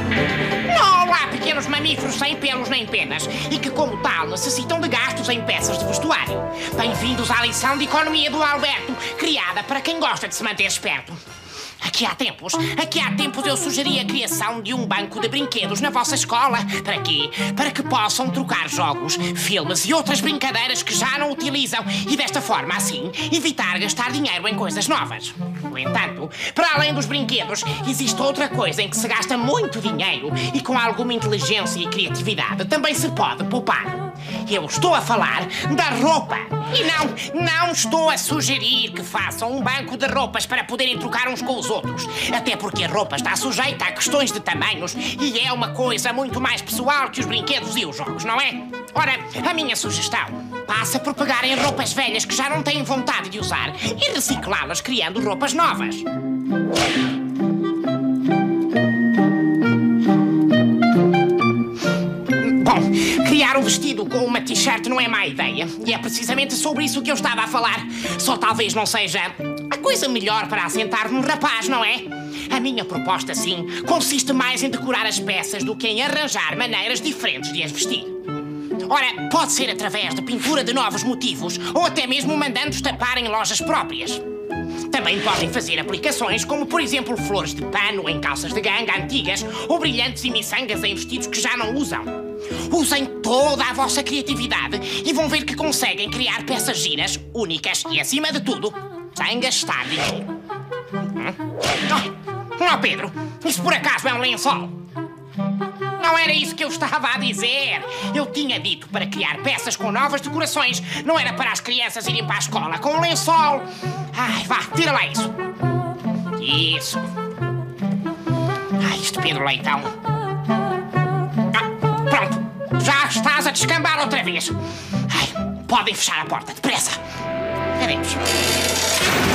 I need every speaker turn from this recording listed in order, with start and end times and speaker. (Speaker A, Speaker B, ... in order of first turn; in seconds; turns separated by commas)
Speaker A: 0.7-11.2, Speaker A: 11.8-56.1, Speaker A: 62.3-78.2, Speaker A: 78.8-84.2, Speaker A: 84.9-100.3, Speaker A: 101.0-104.8, Speaker A: 106.0-115.4, Speaker A: 116.3-117.1, Speaker A: 118.8-119.9, Speaker A: 121.5-127.0, Speaker A: 127.8-128.2